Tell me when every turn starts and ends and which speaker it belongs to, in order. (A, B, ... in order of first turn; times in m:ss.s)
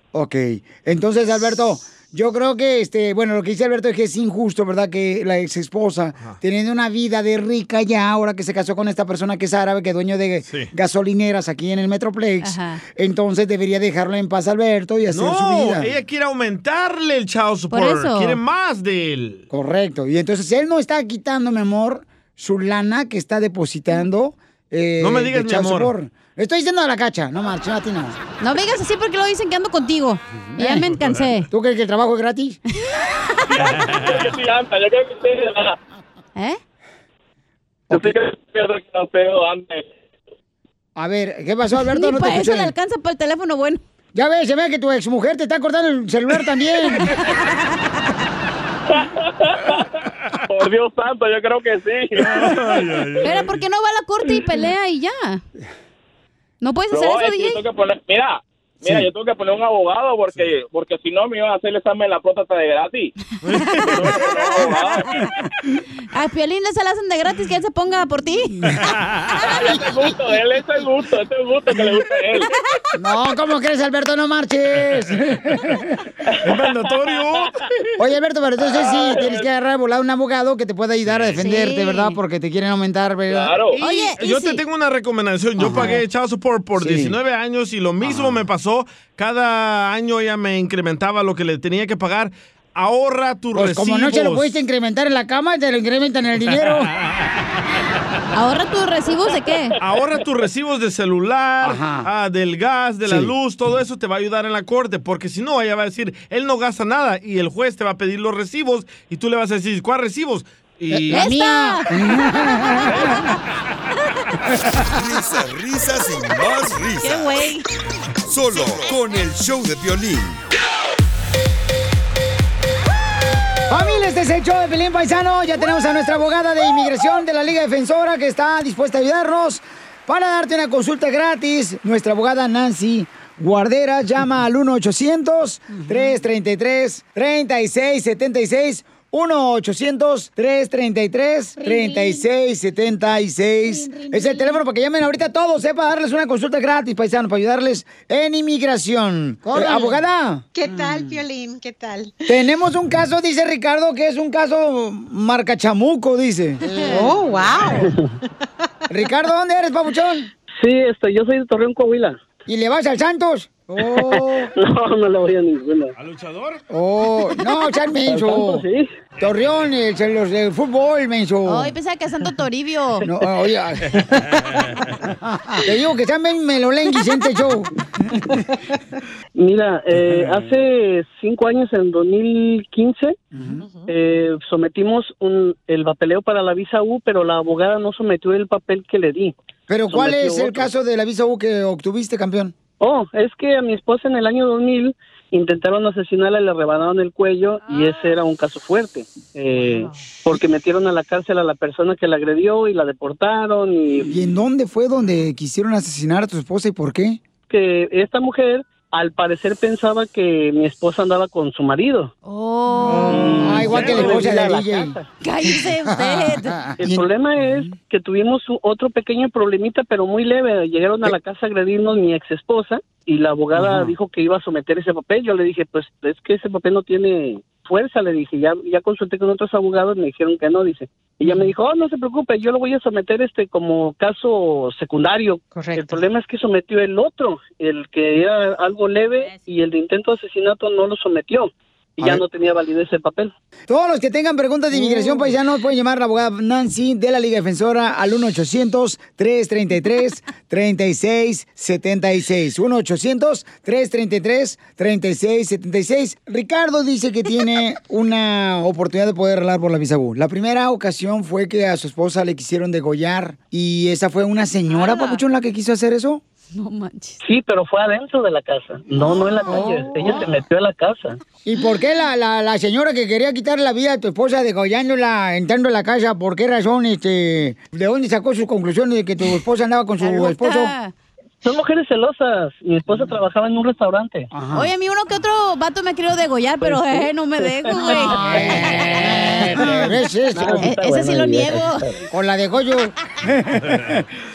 0:00.1-0:16.0 A
0:12.4-0:12.8 B
0:15.1-0:19.4 C
0:17.7-0:18.4 B
0:19.5-0:28.2 A
0:25.0-0:25.9 C
0:28.4-0:31.5 B
0:30.5-0:30.9 A
0:30.8-0:31.3 C
0:31.5-0:32.6 A
0:33.0-0:33.6 B
0:33.6-0:34.0 C
0:33.7-0:35.8 D
0:38.0-0:39.9 D
0:41.0-0:42.7 A
0:41.8-0:43.8 B
0:44.2-0:47.2 A
0:47.0-0:47.7 B
0:48.9-0:49.9 D
0:50.5-0:52.7 D
0:52.2-0:53.6 C
0:53.2-0:55.4 B
0:56.6-0:57.6 B
0:56.9-1:03.1 D
1:03.4-1:04.3 C
1:03.5-1:04.8 B
1:04.0-1:05.1 D
1:06.1-1:08.8 B
1:08.8-1:09.3 C
1:09.5-1:12.5 D
1:13.0-1:15.9 A
1:16.3-1:16.9 D
1:16.4-1:17.7 C
1:18.0-1:23.6 A
1:18.6-1:19.5 D
1:21.0-1:21.4 C
1:21.4-1:22.2 B
1:23.3-1:23.8 D
1:23.7-1:34.6 C
1:23.8-1:24.6 B
1:25.6-1:26.0 A
1:26.8-1:27.2 A
1:28.0-1:28.4 A
1:33.5-1:36.9 A
1:36.7-1:37.3 C
1:38.3-1:39.8 B
1:39.8-1:51.2 C
1:41.6-1:42.1 A
1:43.0-1:43.3 A
1:50.9-1:53.2 A
1:51.1-1:51.9 B
1:54.9-1:57.4 E
1:57.0-1:57.6 B
1:58.3-2:00.4 E
2:03.7-2:30.9 A
2:29.6-2:29.9 F
2:30.5-2:32.2 F
2:32.3-2:37.2 A
2:36.8-2:37.9 F
2:37.8-2:38.1 G
2:38.9-2:40.3 A
2:40.6-2:42.2 G
2:42.5-2:44.5 A
2:43.8-2:45.9 G
2:46.0-2:46.6 C
2:46.7-2:48.6 A
2:48.1-2:48.9 G
2:49.2-2:51.7 A
2:51.5-2:53.1 B
2:53.0-2:54.2 A
2:54.0-2:54.6 C
2:55.5-2:57.7 A
2:59.4-3:03.2 G
3:03.4-3:03.6 A
3:03.6-3:03.9 F
3:03.9-3:09.4 G
3:09.7-3:12.5 A
3:09.9-3:10.7 G
3:12.8-3:24.1 G
3:24.0-3:27.2 A
3:27.5-3:32.1 G
3:32.2-3:33.3 B
3:32.8-3:35.0 A
3:32.8-3:35.1 G
3:35.2-3:36.5 B
3:35.9-3:37.6 A
3:36.8-4:03.3 G
3:43.6-3:43.9 A
4:03.7-4:26.2 A
4:04.8-4:05.2 G
4:24.7-4:25.2 B
4:26.6-4:27.2 B
4:27.2-4:31.2 G
4:29.0-4:30.2 F
4:29.5-4:30.2 A
4:31.4-4:40.7 A
4:40.0-4:40.9 B
4:41.4-4:44.3 G
4:44.3-4:44.7 A
4:44.5-4:49.4 B
4:46.6-4:52.1 G
4:47.8-4:50.8 A
4:50.5-4:51.9 B
4:52.1-4:54.0 A
4:53.6-4:54.0 C